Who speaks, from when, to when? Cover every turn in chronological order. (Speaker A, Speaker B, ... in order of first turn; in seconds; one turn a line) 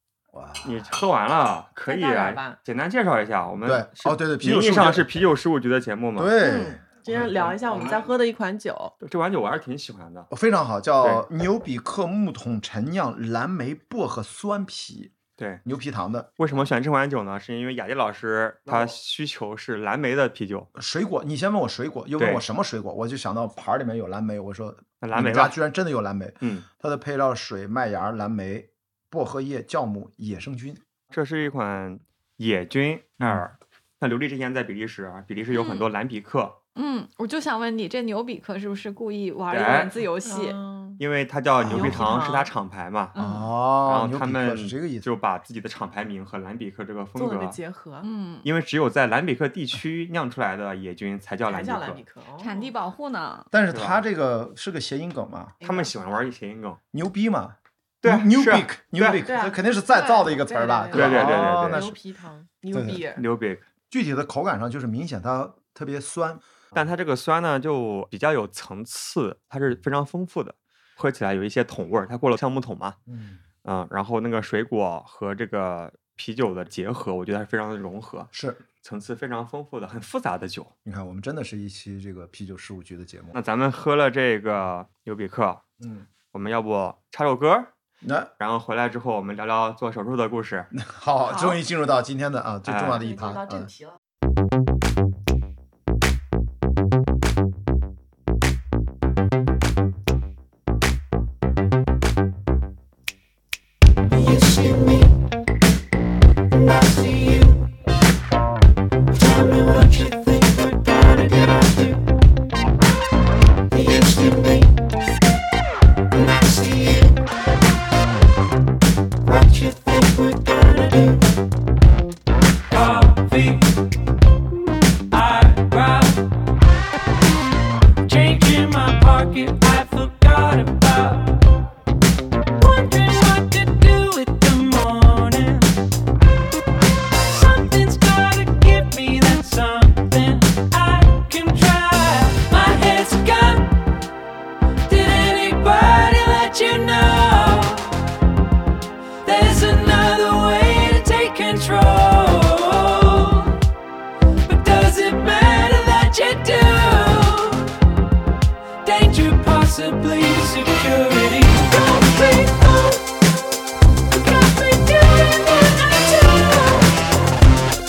Speaker A: 0.3-0.9
Speaker B: 0.6-6.3
Speaker C: 1.9-2.6
Speaker A: 3.6-5.1
Speaker A: 6.2-8.0
Speaker C: 6.4-8.9
Speaker B: 9.0-10.3
Speaker A: 10.3-16.6
Speaker B: 16.4-20.7
Speaker A: 18.7-19.0
Speaker A: 20.8-30.8
Speaker B: 22.2-22.4
Speaker B: 25.0-25.6
Speaker B: 26.4-26.7
Speaker B: 31.1-36.6
Speaker D: 35.5-35.9
Speaker D: 36.8-40.6
Speaker B: 39.5-40.0
Speaker C: 40.2-41.0
Speaker B: 41.0-43.2
Speaker A: 41.6-42.0
Speaker C: 41.7-42.5
Speaker A: 43.2-45.1
Speaker B: 43.8-47.6
Speaker C: 47.1-48.1
Speaker D: 48.0-48.5
Speaker B: 48.4-52.0
Speaker C: 51.5-52.7
Speaker D: 52.4-53.5
Speaker A: 53.5-55.6
Speaker B: 53.7-54.0
Speaker B: 55.6-56.8
Speaker C: 55.6-55.9
Speaker A: 56.9-62.0
Speaker B: 58.0-59.2
Speaker C: 59.2-63.2
Speaker B: 60.9-61.9
Speaker A: 62.7-63.0
Speaker B: 63.2-63.6
Speaker A: 63.9-66.4
Speaker B: 66.7-73.0
Speaker A: 73.1-73.4
Speaker B: 73.6-78.3
Speaker A: 78.3-78.6
Speaker B: 78.8-80.7
Speaker A: 80.8-83.4
Speaker B: 83.3-85.6
Speaker A: 85.8-86.1
Speaker B: 86.3-87.7
Speaker A: 88.0-88.3
Speaker B: 88.4-90.7
Speaker A: 90.7-93.7
Speaker B: 92.7-93.0
Speaker C: 93.0-94.0
Speaker E: 104.1-105.1
Speaker E: 106.5-107.6
Speaker E: 109.1-112.0
Speaker E: 113.7-114.7
Speaker E: 116.2-117.2
Speaker E: 119.2-121.2
Speaker E: 122.7-123.7
Speaker E: 125.1-126.2
Speaker E: 128.0-131.4
Speaker E: 132.6-135.7
Speaker E: 137.3-143.8
Speaker E: 144.9-147.9
Speaker E: 149.2-153.6
Speaker E: 154.4-157.8
Speaker E: 158.8-163.0
Speaker E: 164.4-166.9